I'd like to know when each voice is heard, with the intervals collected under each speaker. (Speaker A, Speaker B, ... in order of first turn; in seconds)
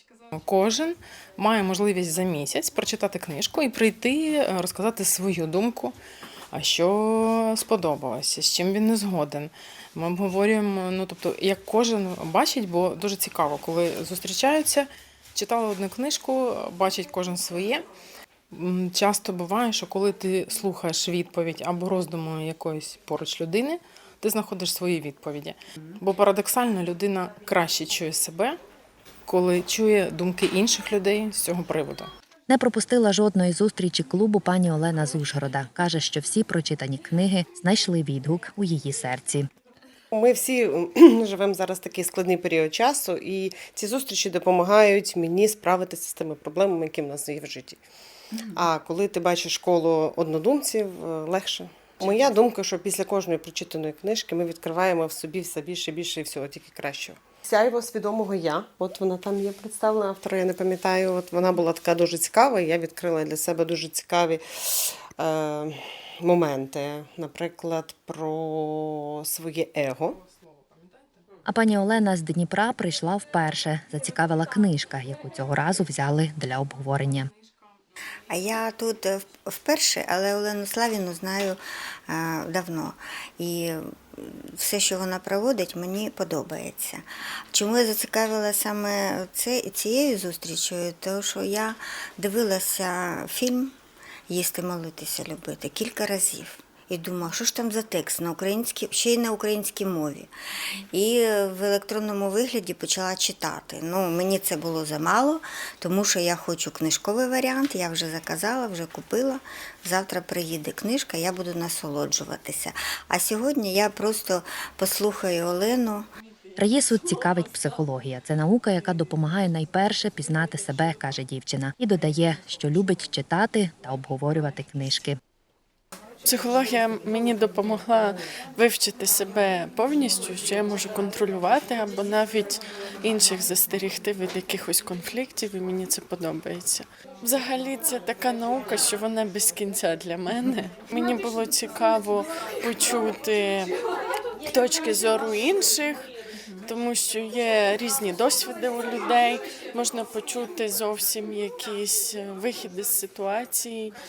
Speaker A: 0.3-6.0, 6.5-17.9, 18.5-28.6, 29.3-32.1
Speaker B: 32.5-39.5, 71.5-77.3, 116.6-125.2
Speaker C: 40.1-47.8, 48.5-70.2
Speaker D: 78.3-93.7, 94.3-100.3, 100.9-116.0
Speaker E: 126.2-143.7, 144.4-146.1, 146.6-153.9